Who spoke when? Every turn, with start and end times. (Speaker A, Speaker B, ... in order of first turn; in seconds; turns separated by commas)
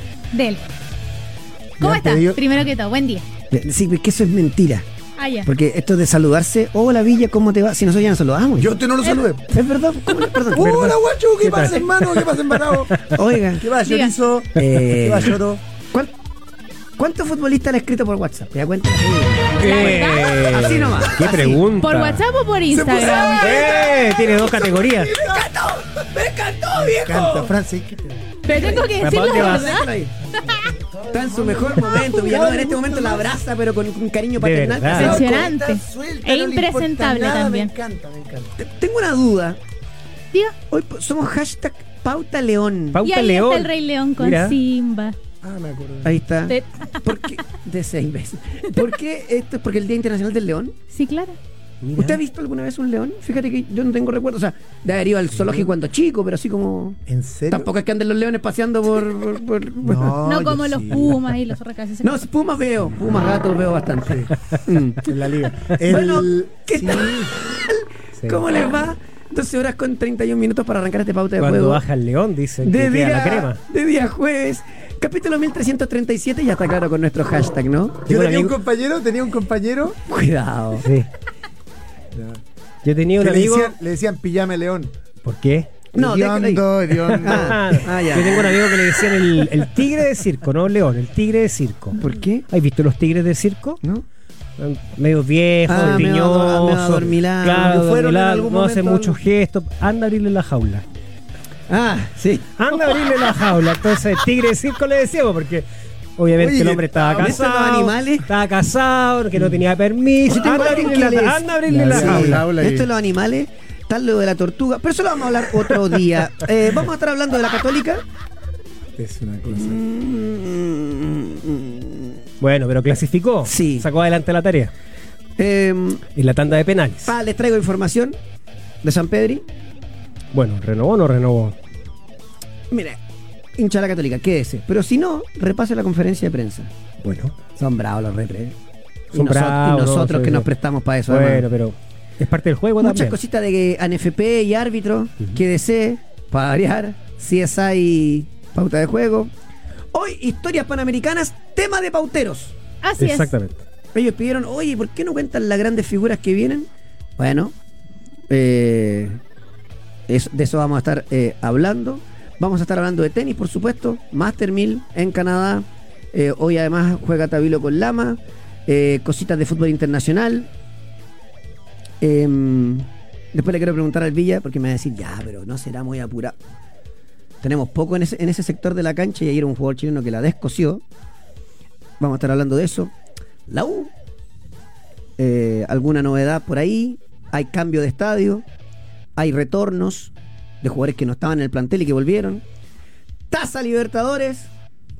Speaker A: 0.3-0.6, Speaker B: 1.8-2.4, Speaker A: 1.8-3.2, Speaker C: 3.5-4.8, Speaker A: 5.2-5.5, Speaker C: 5.5-8.7, Speaker B: 8.6-9.6, Speaker C: 9.5-10.9, Speaker B: 10.5-15.6, Speaker D: 10.5-13.1, Speaker C: 13.1-13.7, Speaker A: 13.8-14.1, Speaker C: 14.6-15.4, Speaker C: 17.0-21.6, Speaker D: 19.6-22.2, Speaker A: 19.6-20.5, Speaker A: 21.8-23.8, Speaker B: 22.7-25.5, Speaker C: 23.1-27.5, Speaker D: 23.4-25.1, Speaker B: 26.7-28.7, Speaker A: 28.4-29.9, Speaker C: 28.5-30.1, Speaker D: 29.0-29.8, Speaker B: 30.3-33.4, Speaker C: 31.1-35.4, Speaker D: 34.4-35.2, Speaker A: 34.9-37.7, Speaker B: 34.9-38.5, Speaker C: 38.6-39.6, Speaker C: 40.7-43.0, Speaker D: 42.9-44.6, Speaker A: 43.0-45.1, Speaker B: 45.4-46.2, Speaker C: 46.0-50.8, Speaker A: 50.9-51.4, Speaker D: 51.8-52.2, Speaker C: 52.0-57.0, Speaker B: 57.1-57.7, Speaker C: 57.5-60.2, Speaker B: 59.8-61.2, Speaker A: 60.2-62.2, Speaker C: 62.0-65.1, Speaker B: 64.0-64.3, Speaker B: 65.0-67.3, Speaker C: 65.8-71.8, Speaker D: 68.2-68.4, Speaker D: 71.4-73.6, Speaker C: 72.6-78.1, Speaker B: 78.1-80.0, Speaker D: 78.1-78.5, Speaker C: 80.1-80.8, Speaker D: 80.8-81.1, Speaker B: 82.1-82.4, Speaker D: 82.8-83.7, Speaker B: 83.2-84.9, Speaker D: 85.2-85.7, Speaker C: 85.9-89.1, Speaker B: 85.9-88.2, Speaker D: 87.0-93.8, Speaker C: 92.0-92.5, Speaker D: 94.6-100.8, Speaker C: 95.7-97.8, Speaker B: 95.7-96.1, Speaker B: 97.5-99.2, Speaker C: 101.7-103.3, Speaker D: 102.6-105.6, Speaker D: 106.2-112.4, Speaker B: 106.3-107.4, Speaker C: 107.0-108.2, Speaker C: 110.3-118.0, Speaker B: 111.7-112.9, Speaker B: 119.0-119.8, Speaker C: 119.5-122.2, Speaker D: 122.4-124.7, Speaker C: 123.4-123.9, Speaker C: 125.4-126.0, Speaker D: 126.1-127.1, Speaker C: 127.0-128.2, Speaker C: 128.8-129.4, Speaker D: 130.3-131.6, Speaker C: 132.7-133.0, Speaker C: 133.6-136.7, Speaker D: 137.0-137.3, Speaker C: 137.5-138.6, Speaker C: 139.1-141.4, Speaker D: 139.1-140.5, Speaker D: 141.1-143.2, Speaker C: 142.8-149.3, Speaker C: 149.9-152.5, Speaker A: 152.8-153.3, Speaker D: 153.0-153.6, Speaker C: 153.9-157.5, Speaker C: 158.3-159.2, Speaker C: 160.1-170.5, Speaker C: 172.0-176.3, Speaker C: 177.4-180.8, Speaker C: 182.0-182.9, Speaker C: 183.5-183.9, Speaker C: 185.2-188.4, Speaker C: 189.2-192.4, Speaker C: 193.3-194.5